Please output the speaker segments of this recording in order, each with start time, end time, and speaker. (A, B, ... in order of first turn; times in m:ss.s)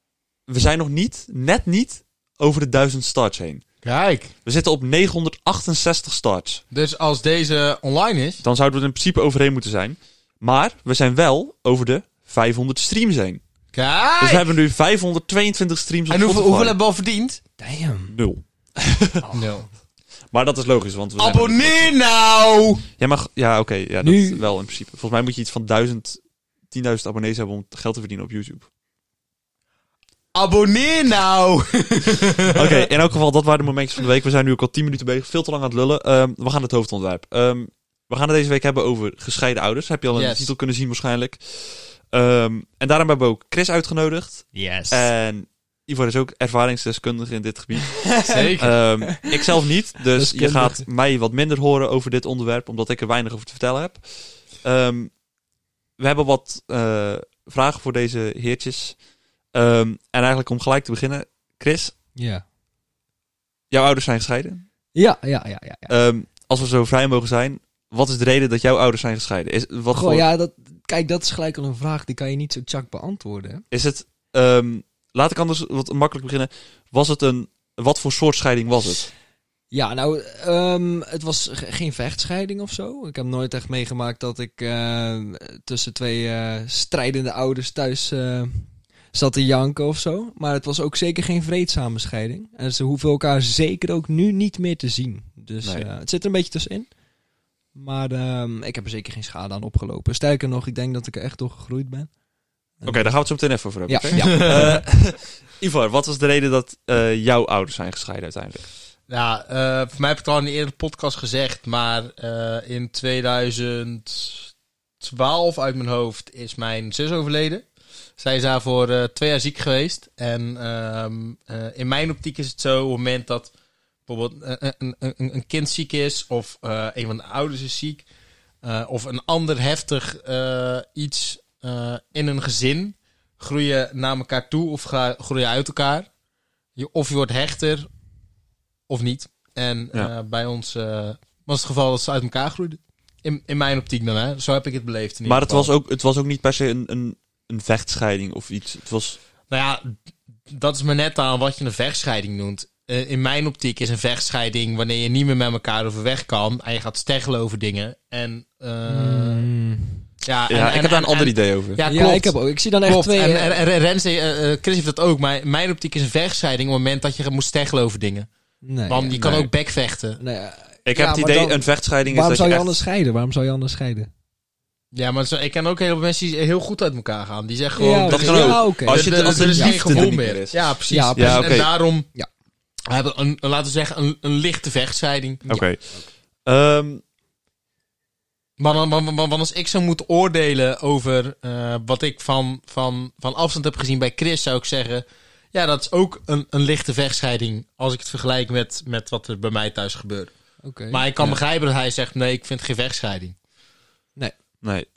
0:00.5-0:03.6 A
0:03.8-0:04.3 B
0:04.4-0:06.6 A
0:06.7-0:08.4 B
0:08.4-0:13.4 A
0:13.7-0:14.4 B
0:14.2-0:16.8 A
0:16.1-0:17.4 B
0:17.6-0:18.1 C
0:18.1-0:19.3 A
0:19.3-0:19.6 B
0:20.3-0:21.9 A
0:21.2-0:22.8 B
0:23.0-0:28.7 A
0:24.0-0:24.4 C
0:30.3-0:32.8 B
0:32.5-0:54.0 A
0:40.1-0:40.5 B
0:44.5-0:45.1 C
0:48.1-0:49.3 C
0:48.2-0:48.8 B
0:50.1-0:50.8 C
0:54.6-0:55.1 A
0:56.0-0:59.0 A
0:59.5-1:01.9 A
1:02.2-1:02.4 C
1:03.7-1:04.6 A
1:04.9-1:05.9 C
1:05.9-1:10.2 A
1:09.9-1:13.6 C
1:13.7-1:19.1 A
1:19.7-1:36.9 C
1:37.7-1:42.1 C
1:42.8-1:43.2 C
1:42.8-1:48.7 A
1:43.8-1:44.8 C
1:44.2-1:44.8 B
1:49.1-1:57.6 B
1:58.2-2:03.5 B
2:04.1-2:08.0 B
2:08.6-2:16.1 B
2:16.8-2:17.9 B
2:18.9-2:25.7 B
2:25.2-2:29.2 A
2:29.5-2:29.9 B
2:30.5-2:39.4 B
2:38.9-2:40.0 C
2:40.2-2:48.3 B
2:40.5-2:41.8 A
2:41.8-2:43.6 C
2:48.6-2:49.5 C
2:48.9-2:50.2 B
2:50.2-2:54.1 C
2:50.8-2:52.8 A
2:54.9-3:02.1 B
2:57.8-3:00.1 C
2:58.1-3:00.6 A
3:00.9-3:02.3 C
3:01.2-3:01.7 A
3:02.9-3:05.4 B
3:05.4-3:06.1 C
3:05.5-3:05.8 A
3:06.4-3:07.0 A
3:08.6-3:20.3 B
3:20.6-3:21.4 C
3:20.9-3:23.3 B
3:24.6-3:24.9 A